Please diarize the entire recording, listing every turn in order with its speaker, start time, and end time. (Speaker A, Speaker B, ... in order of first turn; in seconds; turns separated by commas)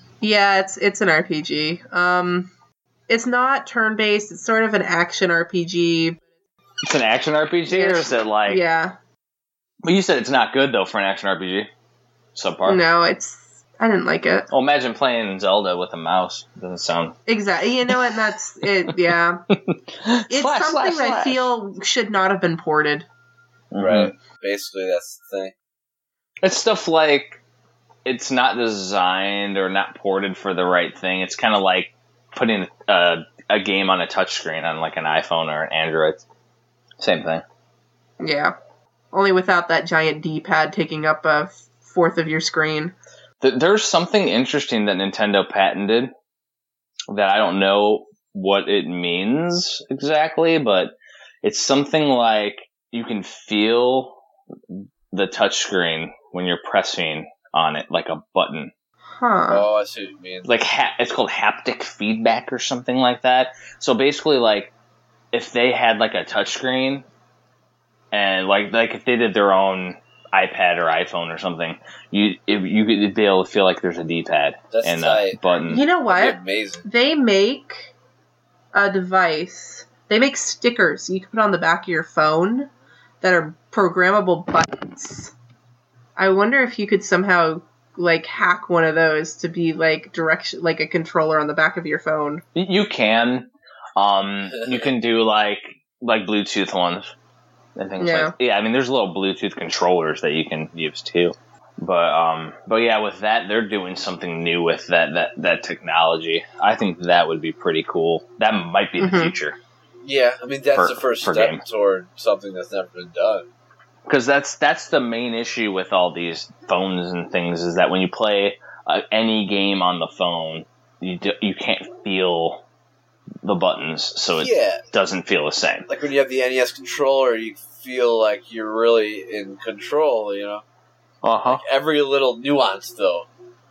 Speaker A: 0.2-2.5, Speaker A: 3.1-6.2, Speaker B: 6.8-8.6, Speaker A: 7.7-8.9, Speaker B: 9.8-11.7, Speaker B: 12.3-12.8, Speaker A: 12.6-14.5, Speaker B: 14.5-17.2, Speaker A: 17.3-19.4, Speaker B: 17.9-18.1, Speaker B: 19.5-21.5, Speaker A: 20.3-23.1, Speaker B: 23.7-24.1, Speaker C: 23.8-25.5, Speaker B: 26.4-27.4, Speaker B: 28.1-36.2, Speaker B: 37.0-37.4, Speaker A: 38.2-38.5, Speaker A: 39.1-42.9, Speaker B: 43.4-46.1, Speaker B: 47.1-58.7, Speaker A: 59.2-59.6, Speaker C: 59.5-60.5, Speaker B: 60.4-64.7, Speaker B: 65.3-67.1, Speaker B: 68.1-75.8, Speaker C: 74.7-75.4, Speaker A: 75.7-77.9, Speaker C: 76.1-76.8, Speaker A: 78.7-82.7, Speaker A: 83.2-85.3, Speaker A: 86.2-92.4, Speaker B: 92.5-97.1, Speaker B: 97.8-109.6, Speaker A: 98.0-98.3, Speaker A: 109.0-109.3, Speaker C: 110.0-113.5, Speaker B: 110.7-111.6, Speaker B: 114.1-122.6, Speaker B: 123.4-125.8, Speaker C: 124.4-124.8, Speaker C: 125.9-130.6, Speaker B: 131.2-131.6, Speaker C: 131.5-133.3